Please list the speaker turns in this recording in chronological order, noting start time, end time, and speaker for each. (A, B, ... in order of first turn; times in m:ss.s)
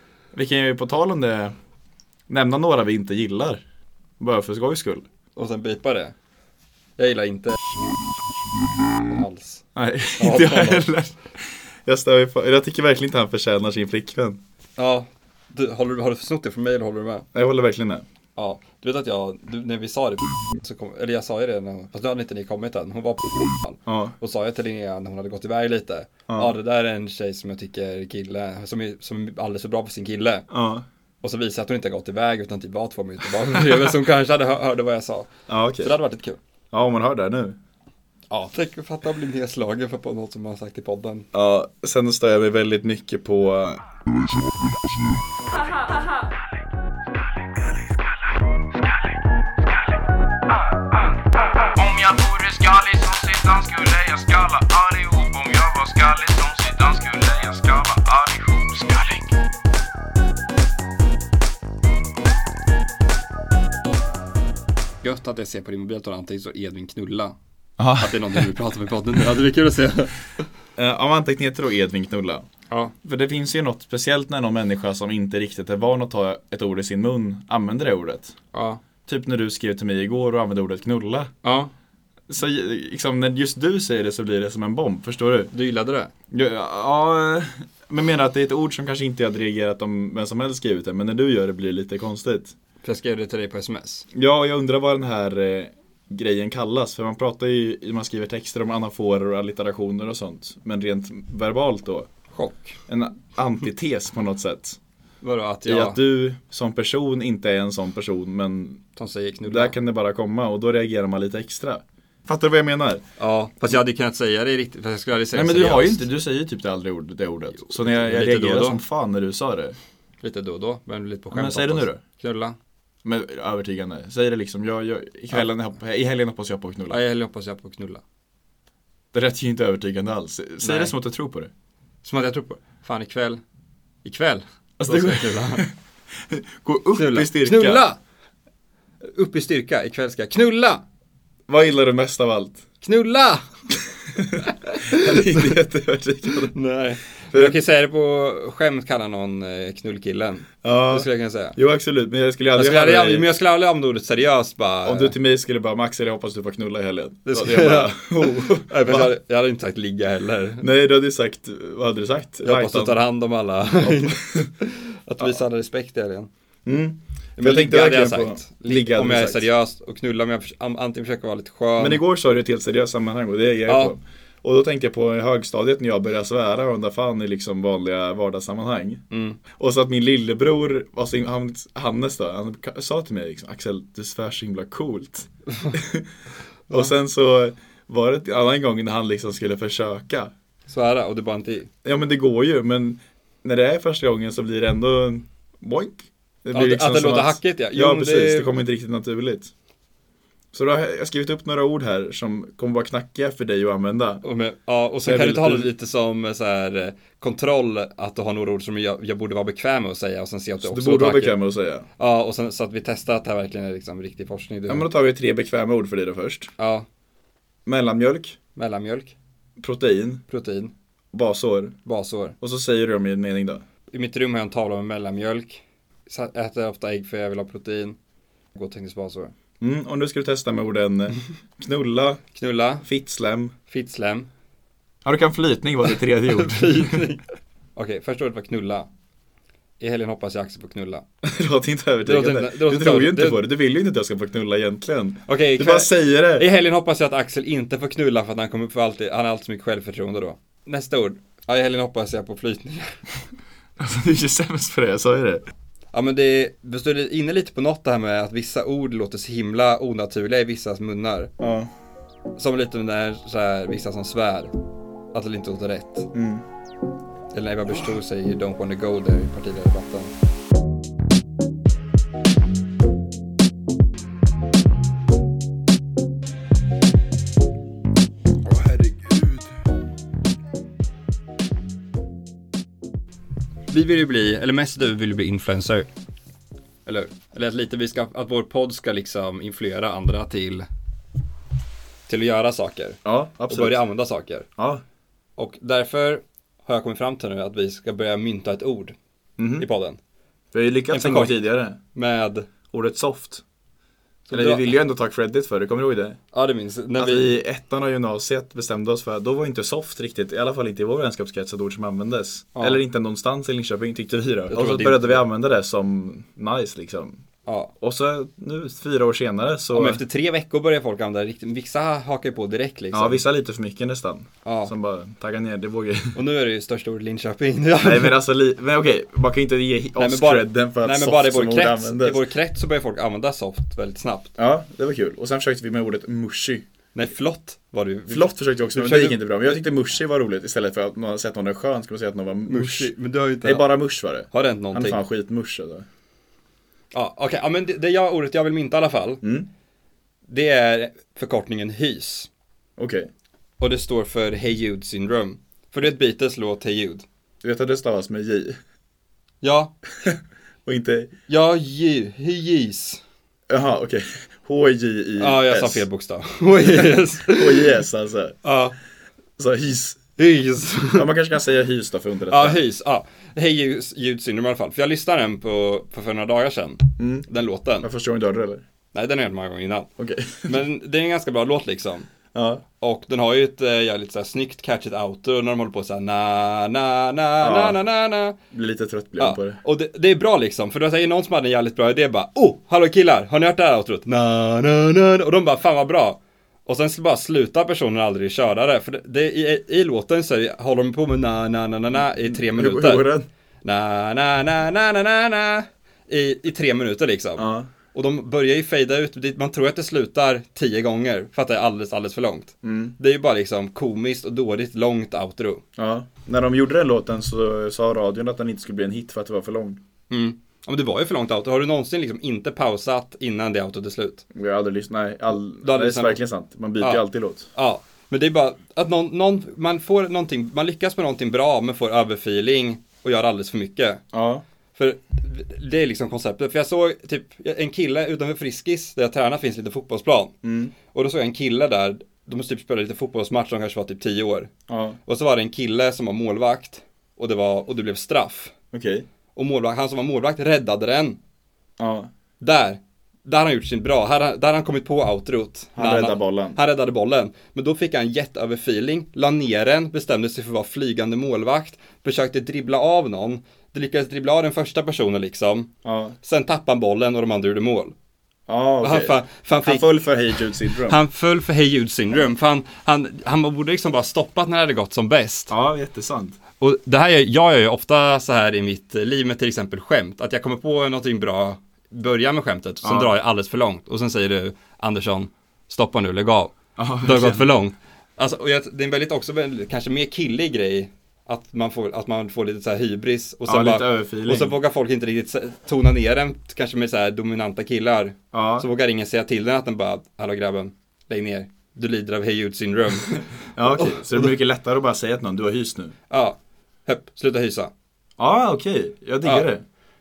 0:00.3-0:01.5 A
0:02.3-0:03.6 A
0:04.2-0:05.0 A
0:05.4-0:06.2 B
0:07.0-0:07.6 B
0:09.0-0:09.6 B
0:09.7-0:14.4 A
0:10.2-0:10.9 B
0:14.8-0:17.3 B
0:17.3-0:18.0 A
0:18.4-0:30.5 B
0:23.9-0:24.2 A
0:30.5-0:30.8 A
0:31.2-0:35.3 B
0:35.5-0:35.9 A
0:35.8-0:36.4 B
0:36.7-0:37.6 A
0:38.3-0:41.3 B
0:41.3-0:43.8 A
0:51.7-0:59.3 C
1:05.0-1:07.4 B
1:07.8-1:08.5 A
1:08.0-1:10.2 B
1:10.8-1:12.4 A
1:13.0-1:18.3 A
1:18.5-1:18.8 B
1:19.1-1:21.3 A
1:21.4-1:21.7 B
1:22.3-1:25.5 A
1:25.5-1:26.1 B
1:26.3-1:32.5 A
1:32.8-1:34.0 B
1:34.1-1:42.1 A
1:42.3-1:42.8 B
1:42.9-1:44.8 A
1:45.2-1:46.0 B
1:45.7-1:48.8 A
1:49.0-1:49.8 B
1:49.5-1:53.0 A
1:53.2-1:56.0 B
1:55.3-1:59.8 A
1:57.6-1:58.8 B
2:00.2-2:02.6 B
2:01.3-2:02.0 A
2:03.0-2:07.0 A
2:06.9-2:08.0 B
2:09.1-2:11.5 A
2:10.6-2:10.9 B
2:12.0-2:13.4 B
2:14.0-2:15.7 B
2:14.8-2:15.7 A
2:16.3-2:17.8 A
2:16.9-2:18.0 B
2:19.1-2:20.8 B
2:21.5-2:22.6 A
2:22.8-2:23.4 B
2:24.1-2:26.5 A
2:24.6-2:25.5 B
2:26.5-2:31.6 B
2:27.3-2:27.6 A
2:30.6-2:33.3 A
2:32.5-2:35.1 B
2:34.8-2:39.1 A
2:37.2-2:40.7 B
2:40.6-2:43.0 A
2:42.4-2:46.3 B
2:43.8-2:44.5 A
2:46.7-2:49.4 A
2:47.4-2:52.0 B
2:51.8-3:06.1 A
2:53.7-2:53.9 B
2:59.1-2:59.4 B
3:06.7-3:10.3 A
3:10.7-3:11.7 B
3:11.8-3:19.5 A
3:16.5-3:18.6 B
3:20.5-3:24.2 A
3:24.2-3:31.4 B
3:25.0-3:25.7 A
3:30.6-3:31.8 A
3:32.0-3:34.9 B
3:34.7-3:36.5 A
3:36.6-3:36.9 B
3:37.7-3:38.4 A
3:38.6-3:39.1 B
3:39.6-3:40.2 A
3:40.3-3:40.7 B
3:41.1-3:41.8 A
3:41.8-3:42.4 B
3:42.4-3:43.6 A
3:43.9-3:48.0 B
3:48.5-3:49.3 B
3:49.6-3:52.2 A
3:52.3-3:52.8 B
3:52.8-3:53.5 A
3:53.7-3:54.3 B
3:55.0-3:57.0 A
3:56.3-3:57.2 B
3:57.8-3:58.9 B
3:59.8-4:01.0 B
4:01.2-4:06.5 A
4:02.1-4:03.4 B
4:05.3-4:12.9 B
4:13.8-4:15.4 A
4:15.9-4:21.3 B
4:21.4-4:21.7 A
4:22.4-4:24.5 B
4:25.1-4:26.1 B
4:26.1-4:26.4 A
4:27.3-4:30.1 B
4:38.4-4:39.5 A
4:43.7-4:45.9 B
4:46.9-4:50.7 B
4:52.1-4:54.5 B
4:53.0-4:53.8 A
4:54.6-4:54.8 A
4:55.4-4:59.0 B
4:59.4-4:59.6 A
4:59.6-5:00.0 B
5:00.5-5:01.8 A
5:00.9-5:01.4 B
5:01.9-5:02.5 B
5:02.7-5:03.4 A
5:04.3-5:04.8 B
5:04.3-5:06.2 A
5:06.3-5:07.3 B
5:07.0-5:17.2 A
5:12.6-5:12.8 B
5:14.5-5:15.2 B
5:17.4-5:17.7 B
5:17.8-5:20.0 A
5:19.7-5:23.2 B
5:22.9-5:26.2 A
5:24.4-5:24.7 B
5:26.1-5:28.2 B
5:27.8-5:32.2 A
5:30.0-5:34.3 B
5:34.4-5:36.6 A
5:36.9-5:39.6 B
5:38.1-5:45.9 A
5:42.5-5:43.7 B
5:44.3-5:45.0 B
5:46.9-5:49.2 B
5:49.2-5:49.5 A
5:50.3-5:52.3 B
5:52.8-5:53.1 A
5:53.6-5:57.1 B
5:57.4-5:58.6 A
5:59.4-5:59.7 B
6:00.0-6:01.1 A
6:01.3-6:03.0 B
6:03.5-6:05.8 A
6:05.2-6:07.8 B
6:06.8-6:08.4 A
6:08.4-6:08.8 B
6:09.4-6:10.0 A
6:10.2-6:11.1 B
6:10.9-6:12.6 A
6:12.3-6:17.9 B
6:17.0-6:17.3 A
6:17.8-6:18.6 A
6:18.9-6:19.9 B
6:20.0-6:20.6 A
6:20.4-6:22.1 B
6:22.3-6:22.6 A
6:22.8-6:28.4 B
6:27.4-6:27.8 A
6:28.5-6:29.6 A
6:29.2-6:43.1 B
6:42.2-6:43.2 A
6:43.6-6:55.6 B
6:47.4-6:47.7 A
6:52.6-6:52.9 A
6:55.8-6:59.8 A
7:00.1-7:04.2 B
7:04.3-7:07.5 A
7:05.6-7:06.2 B
7:06.8-7:14.0 B
7:14.1-7:14.4 A
7:14.8-7:20.3 B
7:20.4-7:20.7 A
7:20.9-7:24.5 B
7:24.7-7:25.0 A
7:25.1-7:28.5 B
7:28.7-7:29.1 A
7:29.3-7:31.2 B
7:31.8-7:32.1 A
7:32.4-7:45.7 B
7:35.8-7:36.6 A
7:45.8-7:46.2 A
7:46.2-7:47.9 B
7:48.5-7:51.0 A
7:48.8-7:49.9 B
7:50.7-7:55.5 B
7:55.5-7:56.4 A
7:56.6-8:24.2 B
8:02.8-8:03.1 A
8:06.8-8:07.5 A
8:13.4-8:14.6 A
8:18.3-8:18.7 A
8:23.5-8:26.0 A
8:26.1-8:27.7 B
8:28.2-8:29.6 A
8:29.2-8:29.5 B